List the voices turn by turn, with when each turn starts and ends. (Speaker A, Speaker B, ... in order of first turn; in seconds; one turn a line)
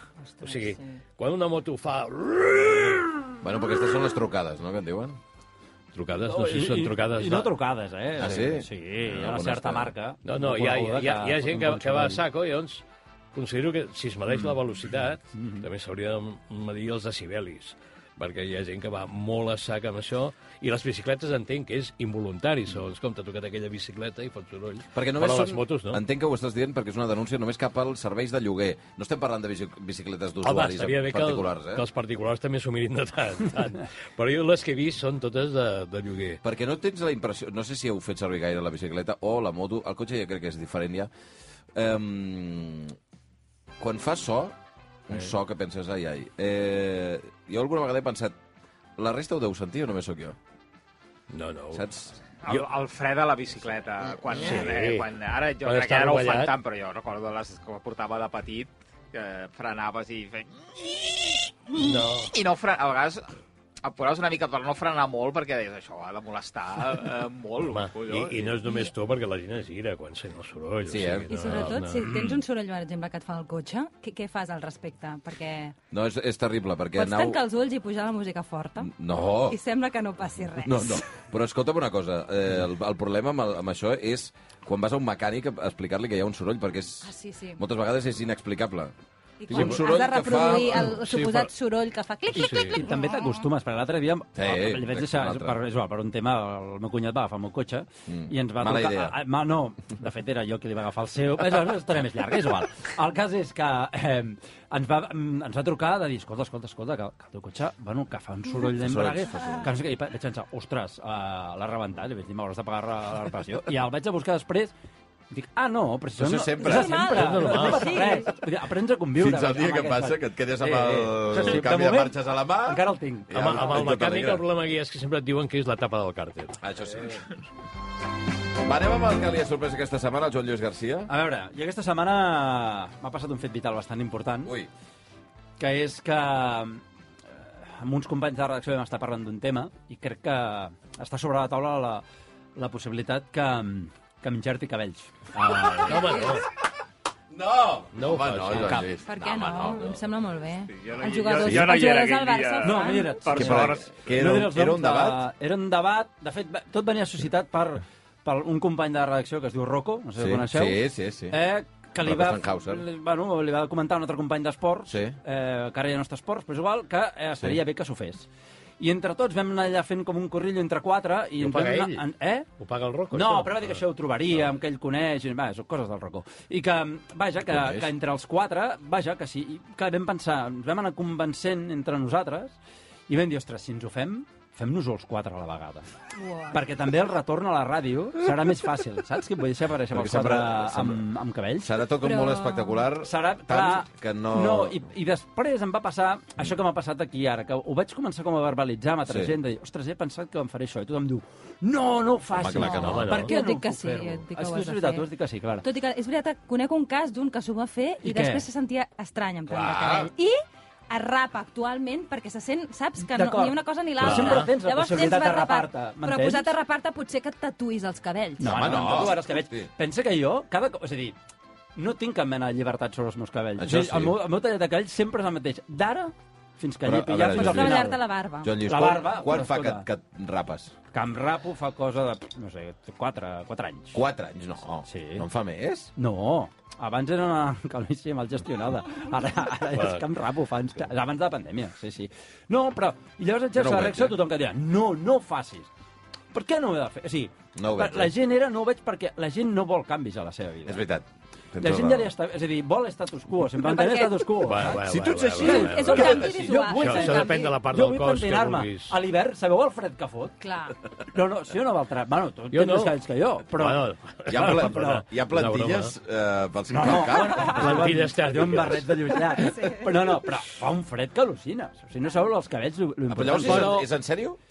Speaker A: 0.2-1.0
Speaker B: 0.4-3.2
Speaker C: 3.4-5.2
Speaker B: 5.9-7.5
Speaker D: 6.3-12.2
Speaker C: 8.2-9.9
Speaker B: 10.2-12.8
Speaker B: 13.3-26.0
Speaker D: 15.4-15.7
Speaker C: 24.9-31.9
Speaker B: 30.4-36.4
Speaker C: 36.4-41.1
Speaker C: 41.8-43.0
Speaker C: 43.8-44.5
Speaker C: 45.1-48.4
Speaker C: 49.0-50.4
Speaker B: 51.3-51.9
Speaker C: 51.7-52.2
Speaker E: 52.4-63.3
Speaker B: 54.4-55.1
Speaker B: 55.6-56.5
Speaker B: 61.8-62.3
Speaker E: 63.8-68.6
Speaker B: 67.6-72.3
Speaker C: 70.9-71.7
Speaker A: 71.3-75.8
Speaker C: 75.9-77.4
Speaker A: 77.0-78.9
Speaker C: 78.8-79.6
Speaker A: 79.5-81.0
Speaker C: 80.6-88.9
Speaker A: 87.0-87.6
Speaker A: 89.4-93.5
Speaker C: 89.5-91.0
Speaker B: 89.5-89.8
Speaker B: 90.5-91.5
Speaker D: 92.3-114.7
Speaker B: 92.4-92.8
Speaker C: 94.4-95.6
Speaker C: 98.1-99.2
Speaker C: 108.7-109.7
Speaker D: 115.3-123.6
Speaker C: 116.2-117.1
Speaker A: 116.6-118.3
Speaker B: 117.1-118.1
Speaker C: 119.2-124.4
Speaker B: 123.3-126.6
Speaker C: 126.6-127.2
Speaker C: 128.6-131.1
Speaker D: 131.1-134.5
Speaker C: 134.4-134.7
Speaker D: 135.6-136.8
Speaker D: 137.6-142.0
Speaker D: 142.6-146.3
Speaker B: 145.7-146.4
Speaker C: 147.3-150.0
Speaker B: 147.9-148.9
Speaker A: 149.1-153.2
Speaker E: 150.7-153.9
Speaker C: 151.4-151.8
Speaker D: 152.6-168.3
Speaker C: 153.3-155.3
Speaker C: 160.2-161.4
Speaker C: 162.0-162.8
Speaker C: 164.9-165.2
Speaker D: 168.8-172.5
Speaker B: 171.4-172.0
Speaker B: 172.6-173.8
Speaker D: 173.1-182.6
Speaker C: 177.5-177.9
Speaker D: 183.1-185.9
Speaker A: 186.2-186.6
Speaker D: 186.5-191.7
Speaker C: 189.9-191.1
Speaker C: 191.6-194.8
Speaker A: 192.0-192.9
Speaker D: 193.0-205.7
Speaker C: 199.1-199.4
Speaker C: 202.3-203.2
Speaker A: 202.6-205.1
Speaker B: 202.7-203.3
Speaker A: 205.6-210.4
Speaker D: 208.0-208.5
Speaker C: 209.5-210.1
Speaker A: 210.9-218.8
Speaker D: 213.0-216.5
Speaker B: 214.0-214.5
Speaker D: 218.4-221.2
Speaker C: 218.4-219.7
Speaker D: 221.8-228.0
Speaker C: 223.6-224.2
Speaker C: 226.8-230.7
Speaker A: 227.3-228.6
Speaker D: 228.6-229.9
Speaker D: 230.9-234.0
Speaker C: 233.9-235.9
Speaker D: 234.9-235.3
Speaker D: 236.0-245.7
Speaker B: 239.7-240.0
Speaker C: 243.6-244.2
Speaker D: 246.3-250.8
Speaker C: 247.6-248.1
Speaker C: 250.7-252.1
Speaker D: 251.6-254.9
Speaker A: 253.6-254.4
Speaker B: 254.4-258.9
Speaker C: 254.7-256.5
Speaker D: 255.4-260.4
Speaker A: 255.4-257.6
Speaker A: 260.4-260.8
Speaker D: 261.1-265.0
Speaker B: 262.5-262.9
Speaker B: 263.5-265.9
Speaker C: 264.3-267.7
Speaker D: 266.7-273.9
Speaker B: 267.4-269.1
Speaker A: 269.4-270.2
Speaker C: 273.1-274.4
Speaker B: 273.5-273.7